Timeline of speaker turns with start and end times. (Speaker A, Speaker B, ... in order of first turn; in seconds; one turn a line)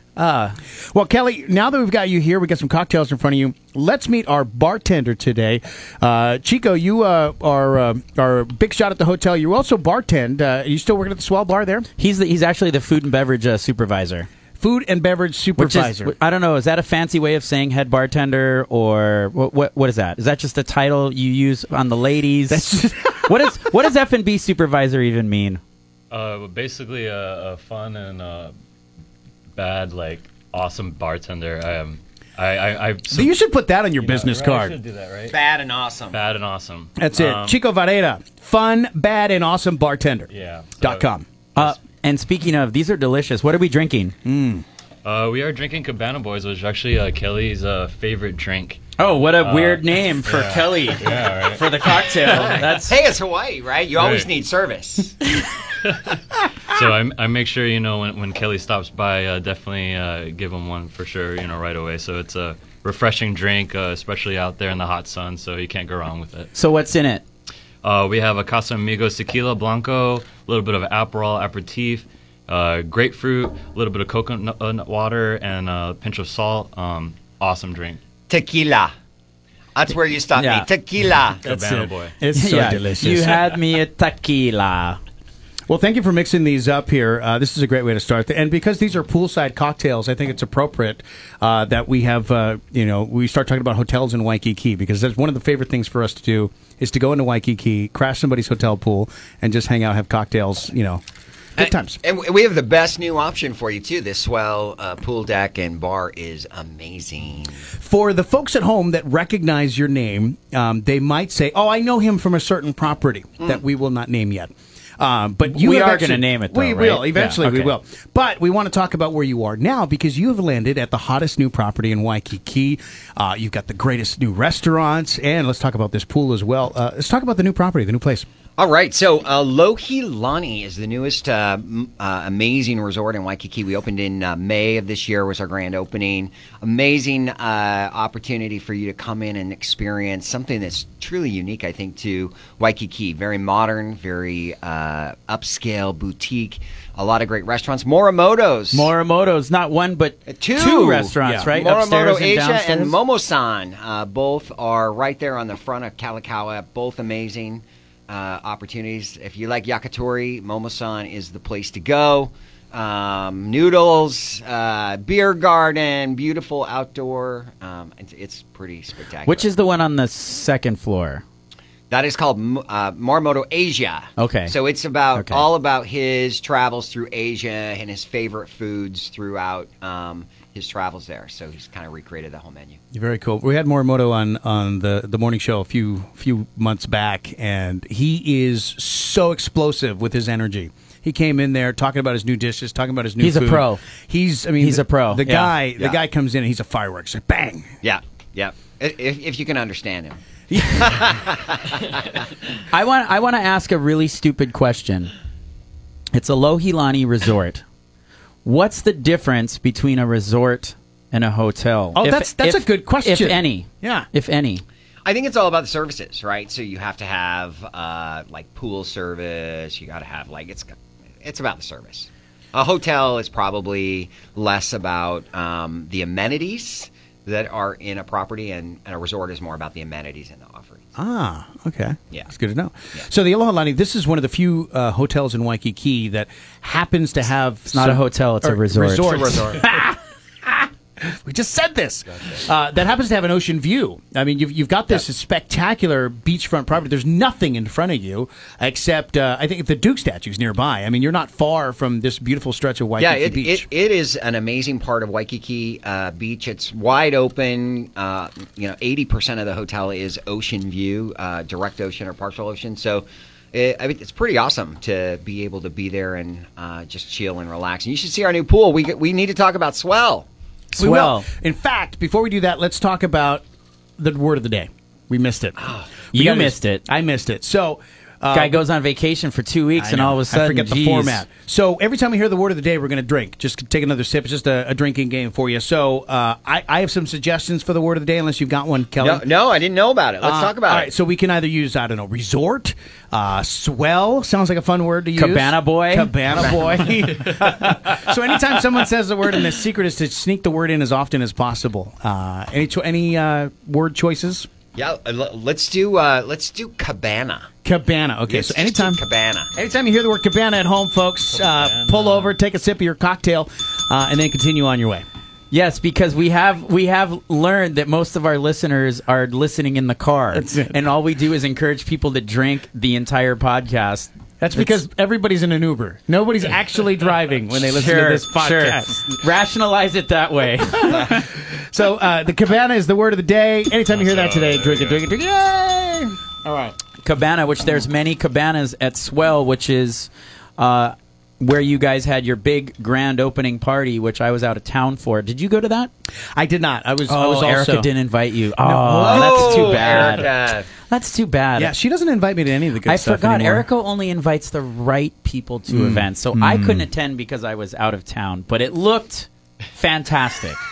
Speaker A: 0.2-11.9
Speaker B: 12.0-14.3
Speaker A: 14.6-16.1
Speaker B: 15.6-25.6
Speaker A: 22.5-23.7
Speaker C: 26.1-28.5
Speaker C: 29.6-33.3
Speaker A: 33.1-34.8
Speaker C: 34.0-35.4
Speaker D: 35.3-36.2
Speaker C: 36.1-37.6
Speaker A: 37.0-40.3
Speaker C: 40.3-41.1
Speaker A: 40.8-41.3
Speaker B: 41.6-44.2
Speaker A: 44.2-44.6
Speaker C: 45.0-48.8
Speaker B: 49.0-53.0
Speaker C: 49.4-52.5
Speaker D: 52.2-55.2
Speaker C: 54.0-54.3
Speaker C: 55.8-66.5
Speaker B: 66.5-67.2
Speaker C: 67.8-78.0
Speaker D: 78.3-78.9
Speaker D: 79.8-81.4
Speaker B: 80.4-80.7
Speaker C: 81.4-82.1
Speaker A: 81.5-83.4
Speaker B: 82.3-85.0
Speaker A: 85.7-101.0
Speaker A: 101.6-102.0
Speaker D: 101.6-107.7
Speaker A: 107.7-128.3
Speaker B: 115.5-117.7
Speaker D: 128.6-148.9
Speaker B: 148.7-153.0
Speaker D: 150.3-169.5
Speaker A: 151.2-151.5
Speaker B: 169.2-171.2
Speaker D: 171.9-182.8
Speaker B: 174.2-174.5
Speaker B: 175.2-175.5
Speaker A: 182.9-197.7
Speaker B: 193.2-193.8
Speaker B: 194.6-195.6
Speaker D: 197.8-202.2
Speaker A: 200.5-201.1
Speaker B: 202.7-205.1
Speaker B: 206.1-207.6
Speaker B: 208.4-214.6
Speaker A: 212.0-214.1
Speaker D: 215.1-230.8
Speaker A: 231.0-253.7
Speaker B: 237.7-239.4
Speaker D: 239.1-239.7
Speaker D: 253.0-270.3
Speaker B: 270.7-271.3
Speaker A: 270.8-273.4
Speaker A: 274.0-275.6
Speaker D: 275.6-275.9
Speaker A: 276.1-278.6
Speaker B: 276.1-276.8
Speaker B: 278.3-281.2
Speaker A: 279.8-289.2
Speaker D: 289.0-290.9
Speaker A: 290.2-304.5
Speaker B: 295.2-296.1
Speaker D: 304.8-307.5
Speaker A: 307.6-309.0
Speaker D: 308.3-309.5
Speaker A: 309.5-315.1
Speaker C: 311.5-312.1
Speaker B: 315.5-324.8
Speaker A: 320.3-320.7
Speaker A: 324.4-329.2
Speaker B: 327.8-331.2
Speaker A: 330.8-336.8
Speaker C: 333.9-335.0
Speaker B: 337.0-345.9
Speaker A: 346.4-347.9
Speaker B: 347.1-351.7
Speaker A: 348.6-350.2
Speaker D: 349.0-350.7
Speaker A: 351.6-353.6
Speaker B: 352.9-360.6
Speaker A: 355.7-356.9